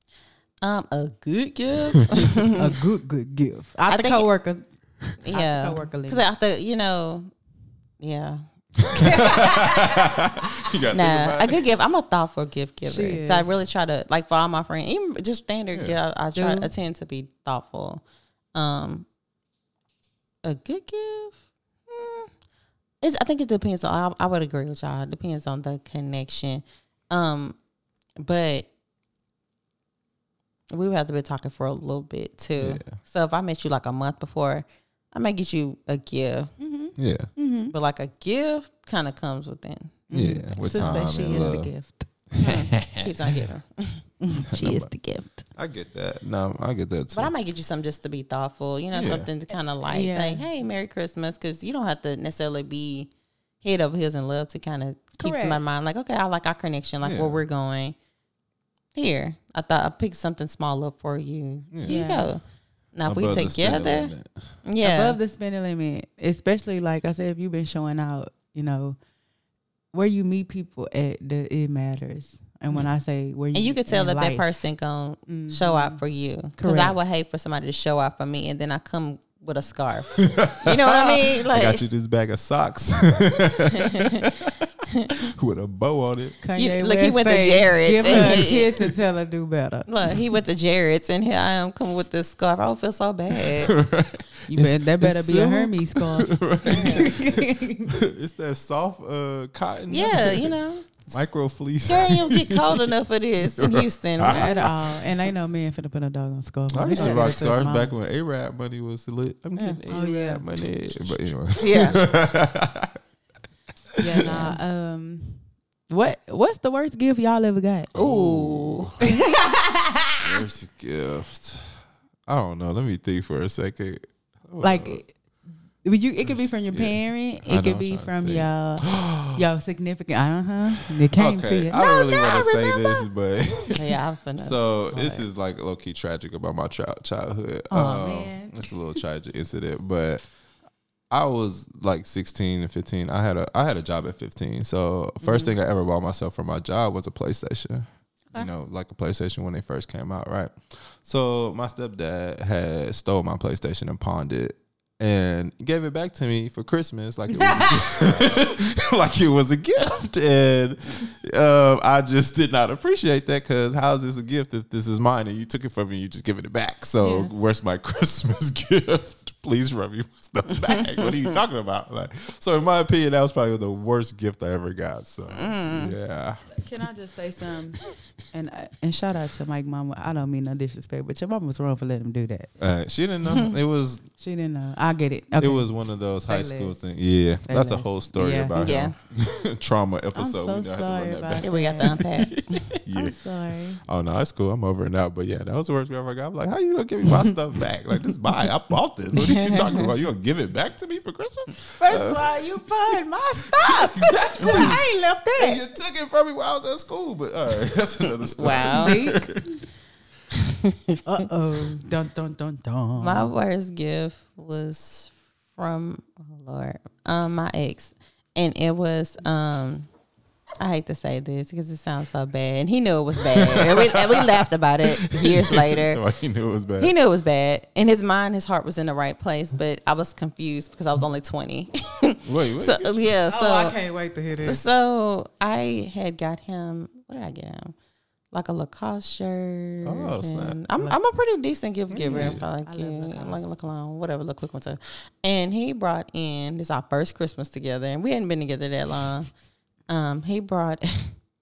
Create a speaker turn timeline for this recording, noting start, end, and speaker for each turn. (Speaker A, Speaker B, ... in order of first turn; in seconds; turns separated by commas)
Speaker A: 0.6-2.8, Speaker B: 2.5-4.7, Speaker A: 3.9-4.3, Speaker A: 5.2-7.3, Speaker B: 5.2-6.2, Speaker A: 8.0-8.4, Speaker C: 8.8-11.6, Speaker B: 8.9-10.1, Speaker A: 10.9-18.0, Speaker B: 12.8-13.5, Speaker B: 16.3-16.7, Speaker A: 18.5-19.1, Speaker A: 20.4-22.3, Speaker A: 23.0-27.6, Speaker A: 28.2-28.7, Speaker A: 30.7-36.5, Speaker C: 32.6-33.0, Speaker B: 36.6-37.7, Speaker C: 37.0-37.3, Speaker A: 37.7-40.0, Speaker B: 40.1-42.1, Speaker C: 40.1-41.7, Speaker A: 41.3-41.5, Speaker C: 42.3-43.5, Speaker A: 42.4-44.0, Speaker B: 44.2-45.5, Speaker C: 44.5-44.9, Speaker C: 45.5-47.3, Speaker A: 47.1-53.1, Speaker C: 48.9-49.3, Speaker B: 49.9-50.4, Speaker A: 53.6-57.9, Speaker B: 55.2-55.6, Speaker C: 57.0-57.4, Speaker A: 58.9-62.4, Speaker C: 61.7-62.0, Speaker B: 61.9-62.3, Speaker A: 62.9-64.1, Speaker C: 63.0-64.5, Speaker A: 64.6-65.2, Speaker B: 64.8-69.0, Speaker B: 69.9-74.5, Speaker A: 73.5-81.8, Speaker B: 75.3-76.0, Speaker B: 76.6-77.0, Speaker C: 80.1-84.6, Speaker A: 83.7-84.3, Speaker C: 85.2-86.3, Speaker B: 86.4-89.9, Speaker A: 86.6-88.7, Speaker C: 88.0-88.6, Speaker A: 89.9-93.7, Speaker C: 93.3-102.9, Speaker B: 94.5-98.0, Speaker A: 96.7-97.0, Speaker A: 99.9-101.1, Speaker A: 101.9-104.6, Speaker C: 103.4-104.7, Speaker B: 104.2-107.9, Speaker C: 106.7-113.0, Speaker A: 106.9-107.3, Speaker B: 109.9-110.4, Speaker A: 111.6-112.1, Speaker C: 114.0-114.5, Speaker B: 114.0-117.9, Speaker C: 117.9-119.0, Speaker A: 118.0-118.9, Speaker B: 119.0-120.2, Speaker C: 120.2-125.0, Speaker B: 124.6-125.1, Speaker B: 125.8-133.0, Speaker C: 126.2-129.4, Speaker C: 131.1-140.2, Speaker A: 133.7-135.2, Speaker B: 137.7-139.0, Speaker C: 141.1-176.6, Speaker B: 145.2-145.5, Speaker B: 157.3-158.2, Speaker B: 167.0-167.3, Speaker A: 175.3-175.9, Speaker B: 176.5-177.8, Speaker B: 178.3-182.5, Speaker C: 182.6-184.0, Speaker B: 184.2-186.8, Speaker C: 185.4-193.2, Speaker B: 187.4-188.6, Speaker A: 188.6-188.9, Speaker B: 190.1-192.0, Speaker A: 191.4-192.4, Speaker B: 192.9-193.8, Speaker C: 193.8-202.3, Speaker A: 199.2-199.7, Speaker B: 201.7-205.6, Speaker C: 203.5-204.8, Speaker C: 205.4-209.6, Speaker A: 208.2-209.0, Speaker B: 208.8-209.2, Speaker A: 210.7-211.0, Speaker B: 211.0-213.3, Speaker A: 213.0-219.9, Speaker A: 220.6-226.0, Speaker C: 223.2-226.9, Speaker A: 226.8-233.7, Speaker C: 232.2-233.0, Speaker B: 233.3-234.6, Speaker A: 234.4-237.7, Speaker A: 238.3-249.3, Speaker C: 239.8-240.6, Speaker B: 241.9-243.5, Speaker C: 242.1-242.4, Speaker A: 249.9-251.1